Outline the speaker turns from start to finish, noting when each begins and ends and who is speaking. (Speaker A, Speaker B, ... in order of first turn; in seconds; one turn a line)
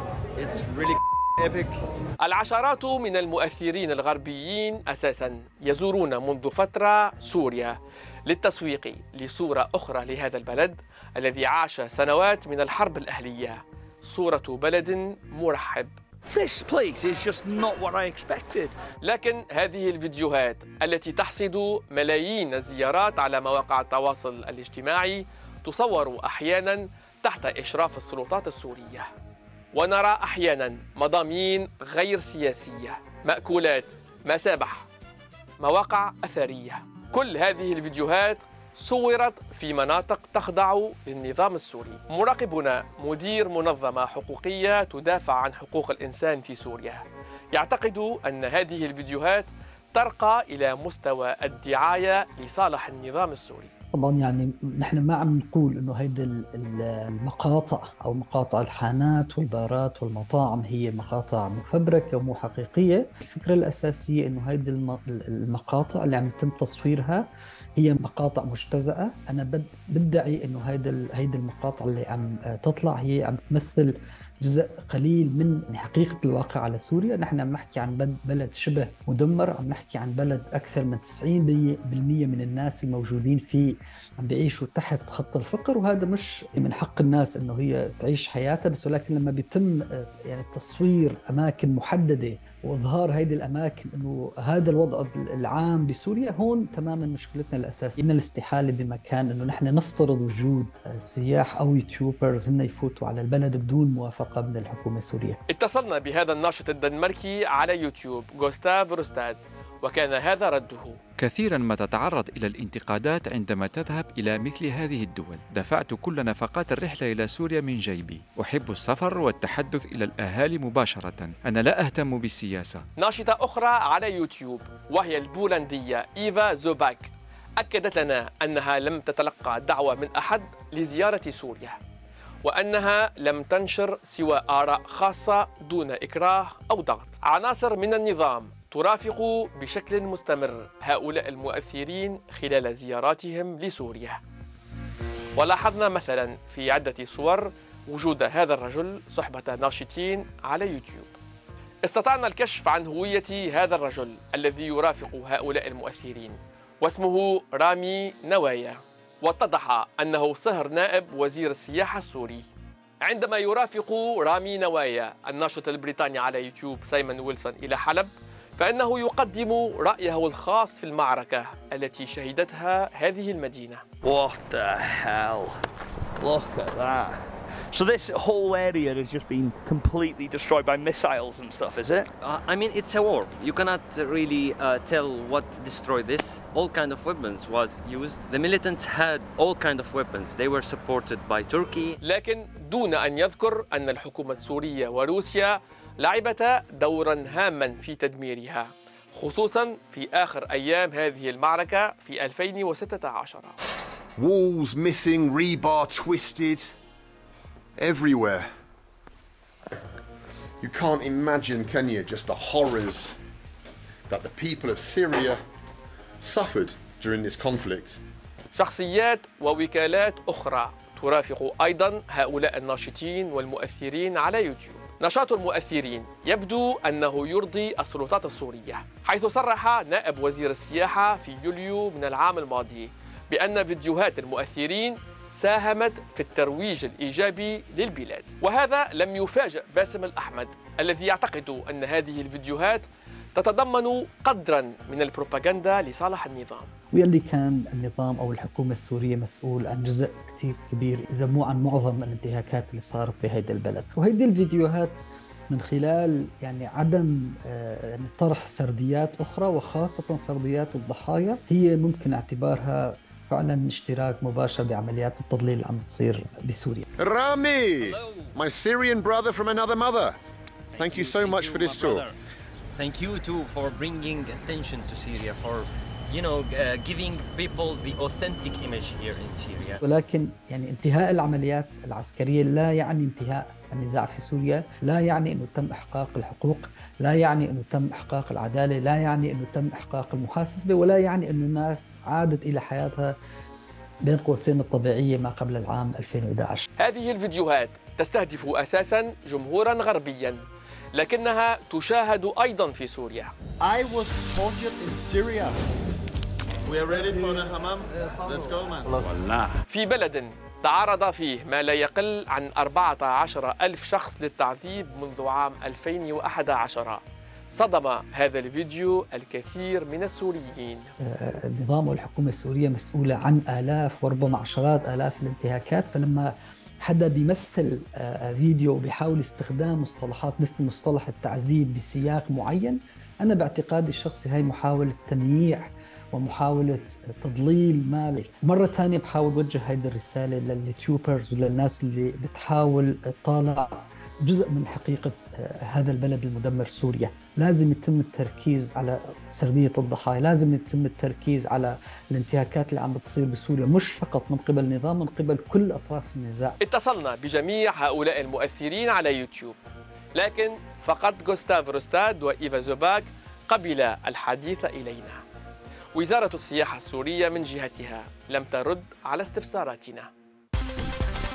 Speaker A: 0.4-1.8
Speaker B: 2.2-15.9
Speaker C: 16.4-18.7
Speaker B: 19.0-29.1
Speaker B: 29.7-34.9
Speaker B: 35.6-53.7
Speaker D: 54.0-67.2
Speaker D: 67.8-105.4
Speaker B: 105.5-111.0
Speaker E: 111.2-122.8
Speaker B: 123.0-131.8
Speaker B: 132.4-144.2
Speaker B: 145.4-151.2
Speaker B: 151.8-162.4
Speaker B: 163.0-173.8
Speaker C: 174.1-175.6
Speaker C: 176.2-177.2
Speaker C: 177.7-182.0
Speaker F: 182.2-192.0
Speaker B: 192.0-203.6
Speaker G: 204.2-206.7
Speaker G: 207.8-208.5
Speaker G: 210.6-213.2
Speaker G: 214.1-215.4
Speaker G: 216.2-218.0
Speaker B: 218.5-242.8
Speaker B: 243.3-246.7
Speaker D: 246.9-266.9
Speaker G: 267.0-270.2
Speaker F: 267.8-268.3
Speaker G: 270.8-272.1
Speaker F: 270.8-272.1
Speaker F: 272.8-279.8
Speaker D: 279.8-293.2
Speaker D: 294.1-296.7
Speaker B: 296.8-303.3
Speaker A: 303.6-305.6
Speaker A: 306.7-309.4
Speaker B: 309.7-320.9
Speaker D: 321.0-356.6
Speaker B: 356.6-359.6
Speaker B: 360.2-365.2
Speaker B: 365.9-370.1